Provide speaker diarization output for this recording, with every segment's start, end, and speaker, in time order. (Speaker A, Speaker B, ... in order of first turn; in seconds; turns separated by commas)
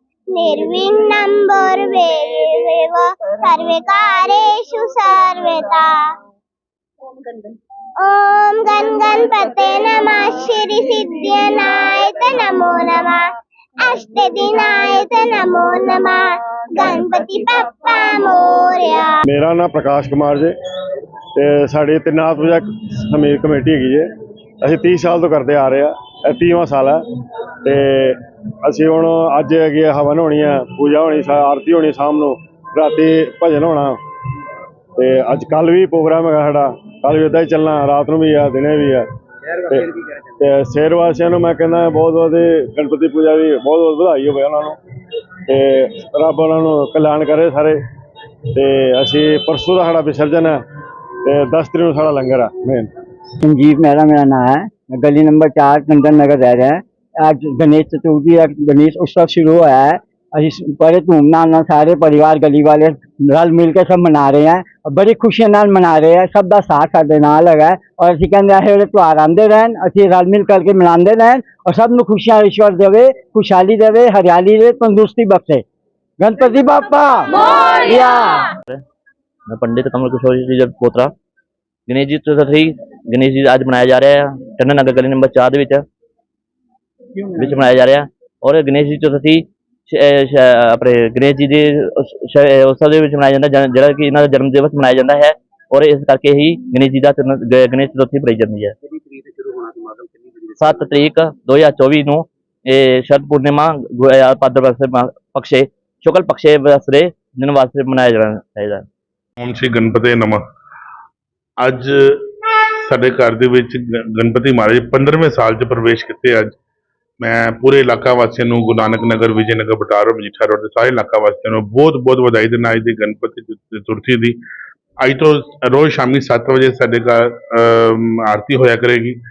Speaker A: 0.3-6.0, Speaker A: 8.0-13.3, Speaker A: 13.8-19.1, Speaker B: 19.3-20.5, Speaker B: 21.4-24.1, Speaker B: 24.6-27.0, Speaker B: 27.6-34.0, Speaker B: 35.0-39.0, Speaker B: 39.7-44.8, Speaker B: 45.5-47.8, Speaker B: 48.5-50.6, Speaker B: 51.2-52.9, Speaker C: 53.4-75.6, Speaker C: 76.2-78.5, Speaker A: 77.5-77.8, Speaker D: 79.5-81.1, Speaker D: 81.9-85.8, Speaker D: 87.3-98.7, Speaker D: 100.6-108.8, Speaker E: 109.4-110.4, Speaker E: 111.6-116.5, Speaker E: 117.2-124.4, Speaker E: 125.0-129.2